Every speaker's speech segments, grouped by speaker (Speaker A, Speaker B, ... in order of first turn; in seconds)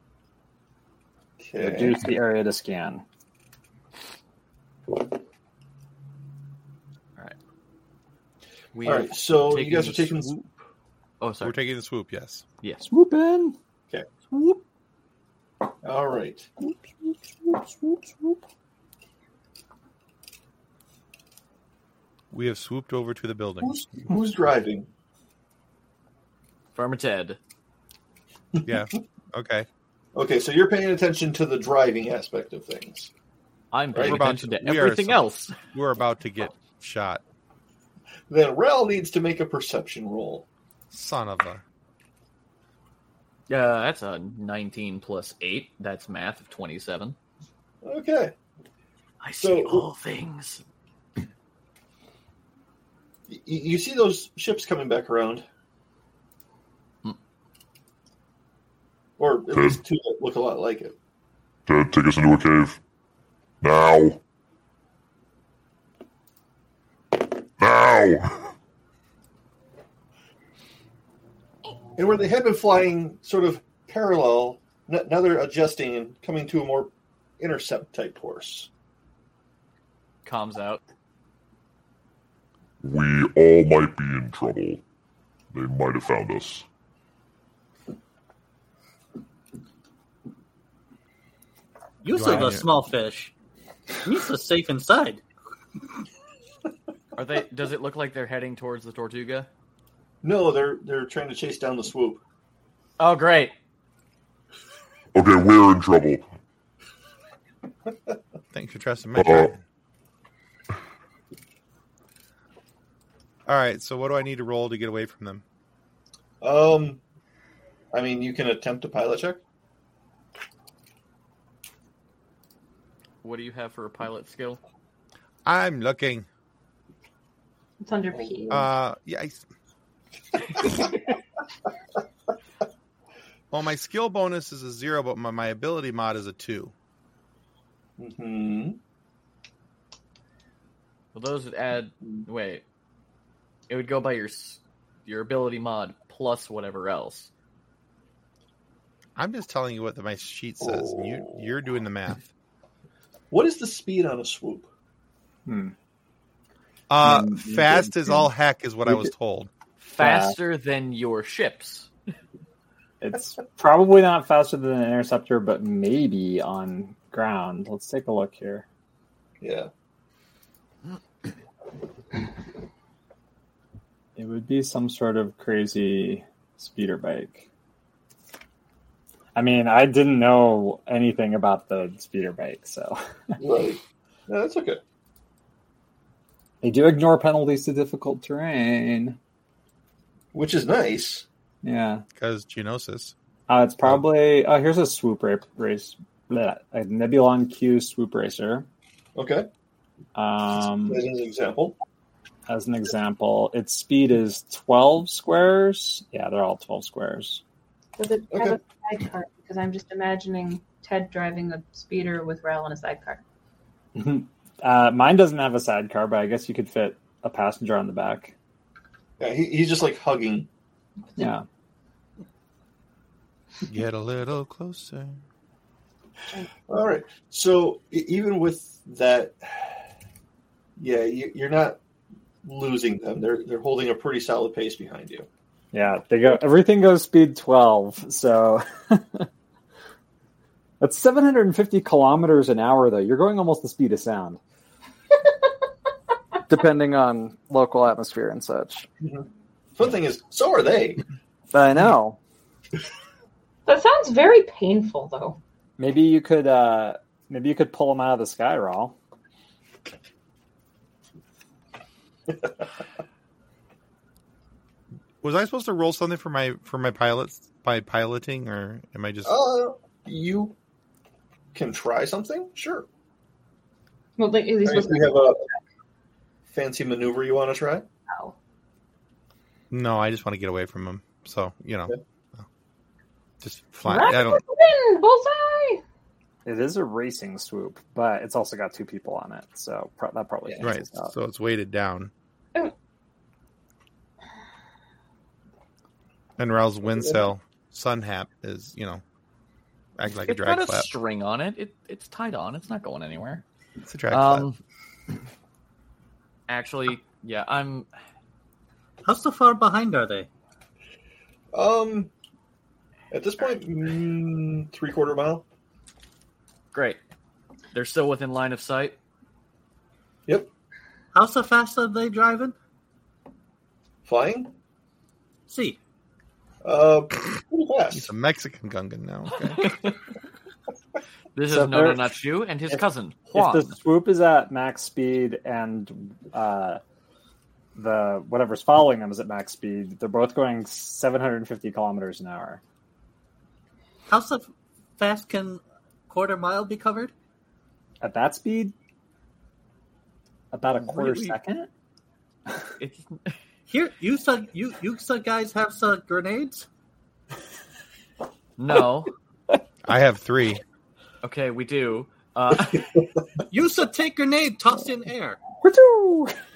Speaker A: 1.4-2.1, 8.8-10.3, 15.8-16.5, 23.6-24.9, 30.1-33.1, 33.9-34.2, 38.3-40.5, 47.8-48.3, 49.4-49.9, 53.3-55.4, 59.2-60.9, 72.0-78.7, 100.2-102.2, 116.4-117.0, 117.9-119.4, 128.1-128.6, 138.0-138.8, 150.6-151.4, 153.3-154.7, 169.4-169.7, 183.4-184.8, 190.3-191.2, 199.2-199.5, 200.8-201.8, 208.3-208.6, 219.2-220.5, 226.7-229.8, 230.8-231.8, 232.4-235.3, 249.0-251.0, 262.3-262.6, 269.2-270.5, 271.5-272.9, 274.6-275.4, 276.5-277.9, 296.9-297.2, 311.5-312.1, 313.1-315.4, 324.0-324.5, 326.6-328.1
Speaker B: 1.6-3.0, 12.9-13.5, 16.6-18.4, 155.4-155.7, 157.0-158.3, 160.0-160.3, 163.0-168.6, 174.2-177.4, 179.3-183.4, 186.6-189.2, 191.6-192.0, 193.5-198.7, 200.2-201.0, 202.5-207.4, 213.9-218.3, 221.2-221.4, 235.7-239.3, 240.8-244.4, 246.5-248.9, 251.5-252.2, 255.8-258.9, 286.4-291.1, 331.5-332.1, 333.3-336.8, 337.8-342.6, 348.0-348.7, 350.5-351.7, 365.6-366.3
Speaker C: 8.7-10.5, 11.2-11.6, 12.6-12.9, 26.7-27.4, 33.7-35.5, 43.5-47.1, 49.2-50.6, 80.2-80.8, 97.2-99.5, 103.0-103.5, 123.2-124.6, 141.1-142.6, 143.7-147.3, 159.8-161.9, 300.2-303.4, 304.1-304.6, 306.5-307.9, 316.7-317.0, 317.7-318.9, 329.6-329.9, 331.3-333.8, 350.8-351.3, 352.8-353.3, 358.6-359.1, 361.2-362.9
Speaker D: 11.4-12.4, 22.3-23.9, 28.6-29.7, 34.0-37.2, 40.9-41.6, 92.1-92.7, 108.5-109.6, 113.5-115.4, 125.5-126.3, 128.5-129.4, 133.5-136.7, 149.2-152.3, 156.9-159.5, 192.2-193.1, 223.7-225.2, 265.2-269.4, 279.7-282.4, 283.4-284.4, 290.6-292.1, 296.4-299.0, 300.0-300.9, 303.8-304.5, 327.9-329.7, 359.8-360.6
Speaker E: 59.5-59.8, 61.7-62.8, 63.6-64.2, 67.6-68.5, 82.8-84.8, 85.5-86.7, 105.1-106.2, 109.2-109.5
Speaker F: 92.0-93.3, 94.0-95.2, 309.0-310.3, 321.1-322.5, 325.5-325.8, 344.1-347.1, 353.7-356.6, 363.5-365.4
Speaker G: 127.8-128.6, 208.0-213.2, 253.7-255.4, 274.2-275.4, 278.1-278.3, 283.8-285.8